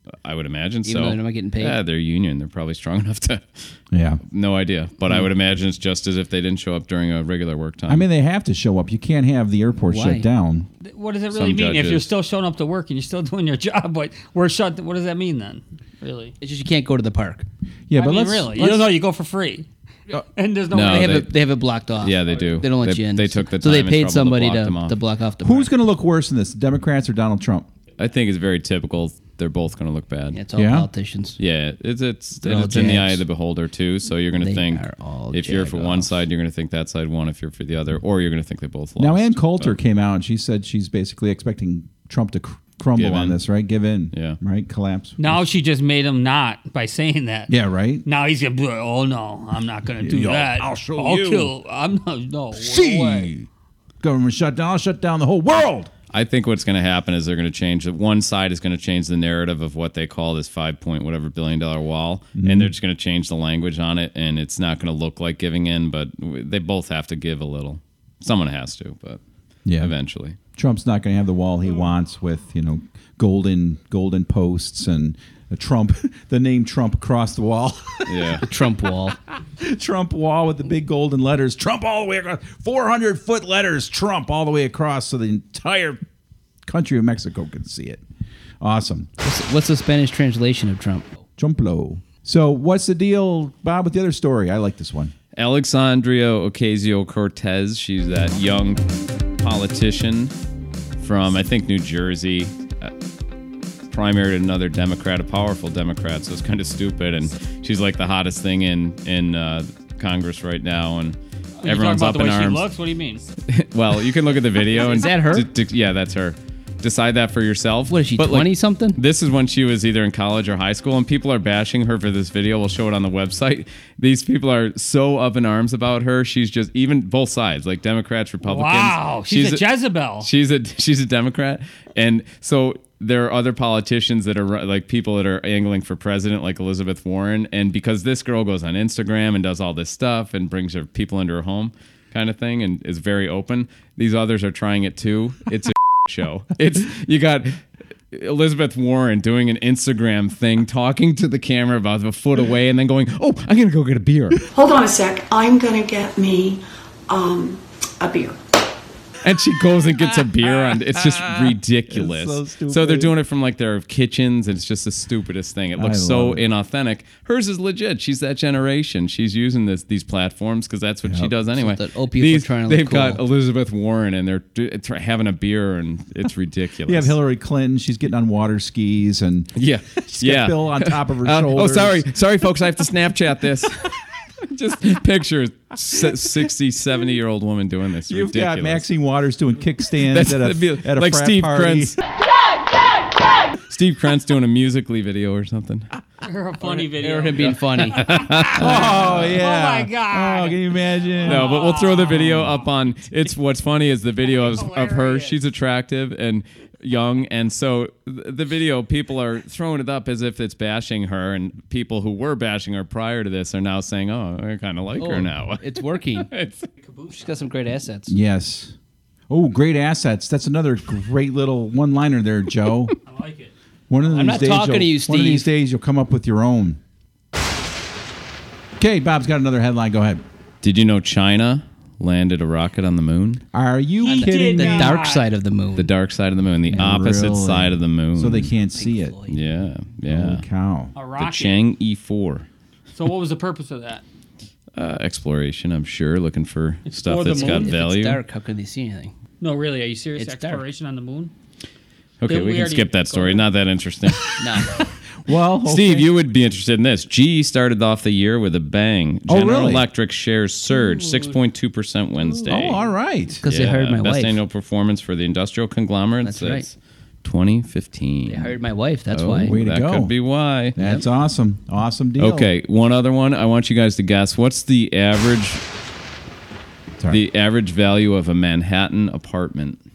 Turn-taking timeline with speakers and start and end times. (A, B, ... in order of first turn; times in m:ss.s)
0:00.2-0:03.7 A
0:00.8-0:01.8 B
0:03.9-0:04.2 C
0:04.2-0:08.0 A
0:07.9-0:10.7 C
0:09.8-0:10.3 B
0:10.8-0:16.3 D
0:11.3-0:12.1 A
0:16.4-0:17.4 B
0:17.9-0:18.9 C
0:17.9-0:19.7 D
0:20.2-0:21.2 D
0:20.7-0:21.3 A
0:20.7-0:25.7 B
0:22.0-0:25.0 A
0:25.4-0:27.7 C
0:28.0-0:30.4 A
0:30.3-0:31.4 B
0:30.5-0:30.9 C
0:31.4-0:39.8 A
0:32.4-0:33.2 B
0:34.4-0:36.2 B
0:39.0-0:45.4 C
0:43.0-0:43.4 A
0:44.1-0:44.4 A
0:45.2-0:47.5 D
0:47.5-0:48.0 C
0:48.0-0:53.3 D
0:50.0-0:51.5 C
0:52.5-0:53.5 C
0:54.0-0:55.9 C
0:56.1-1:09.2 A
1:02.4-1:02.7 C
1:09.6-1:09.9 C
1:09.8-1:10.4 A
1:10.5-1:18.4 C
1:18.0-1:18.4 A
1:18.4-1:19.2 B
1:19.6-1:26.0 C
1:26.6-1:28.0 C
1:28.6-1:29.1 C
1:29.2-1:31.1 B
1:31.4-1:35.1 C
1:35.3-1:40.3 A
1:41.0-1:42.9 A
1:43.9-1:52.6 A
1:51.6-1:53.3 D
1:53.5-2:09.7 A
1:54.7-1:55.5 B
1:57.9-1:59.0 B
2:08.4-2:10.3 D
2:10.2-2:27.6 A
2:28.1-2:34.4 A
2:34.6-2:38.4 E
2:39.2-2:57.2 A
2:41.9-2:43.2 C
2:45.7-2:46.4 C
2:51.0-2:51.3 C
2:51.5-2:53.2 B
2:56.9-3:02.1 C
2:59.6-3:08.8 A
3:08.1-3:12.0 C
3:10.0-3:12.0 A
3:13.7-3:15.9 A
3:16.2-3:22.7 D
3:16.6-3:18.1 B
3:17.3-3:19.4 A
3:18.5-3:21.5 C
3:21.2-3:36.7 A
3:24.2-3:25.4 D
3:35.0-3:36.3 B
3:37.1-3:38.1 B
3:38.1-3:38.7 C
3:39.3-3:42.9 C
3:43.0-3:43.5 D
3:43.9-3:46.8 C
3:44.0-3:45.5 B
3:48.8-3:50.2 C
3:50.6-3:53.4 A
3:53.5-3:55.0 C
3:54.0-3:55.3 D
3:54.1-3:55.9 B
3:55.8-3:58.5 A
3:56.7-3:59.2 C
3:58.7-3:59.4 B
3:59.3-4:00.4 A
4:00.1-4:00.9 C
4:00.9-4:01.6 D
4:01.2-4:02.5 A
4:03.0-4:04.0 D
4:04.7-4:08.2 A
4:06.8-4:07.7 D
4:07.3-4:09.1 B
4:09.4-4:11.3 D
4:10.2-4:10.6 B
4:12.2-4:14.4 A
4:12.2-4:13.5 D
4:14.4-4:14.8 B
4:15.2-4:16.1 C
4:15.6-4:22.8 A
4:19.3-4:19.8 C
4:22.5-4:23.4 C
4:23.4-4:24.4 B
4:23.4-4:28.5 A
4:26.2-4:26.7 B
4:28.2-4:29.6 B
4:29.1-4:30.8 A
4:29.4-4:30.1 C
4:30.8-4:32.5 C
4:30.8-4:31.0 B
4:32.2-4:35.6 A
4:37.1-4:39.8 A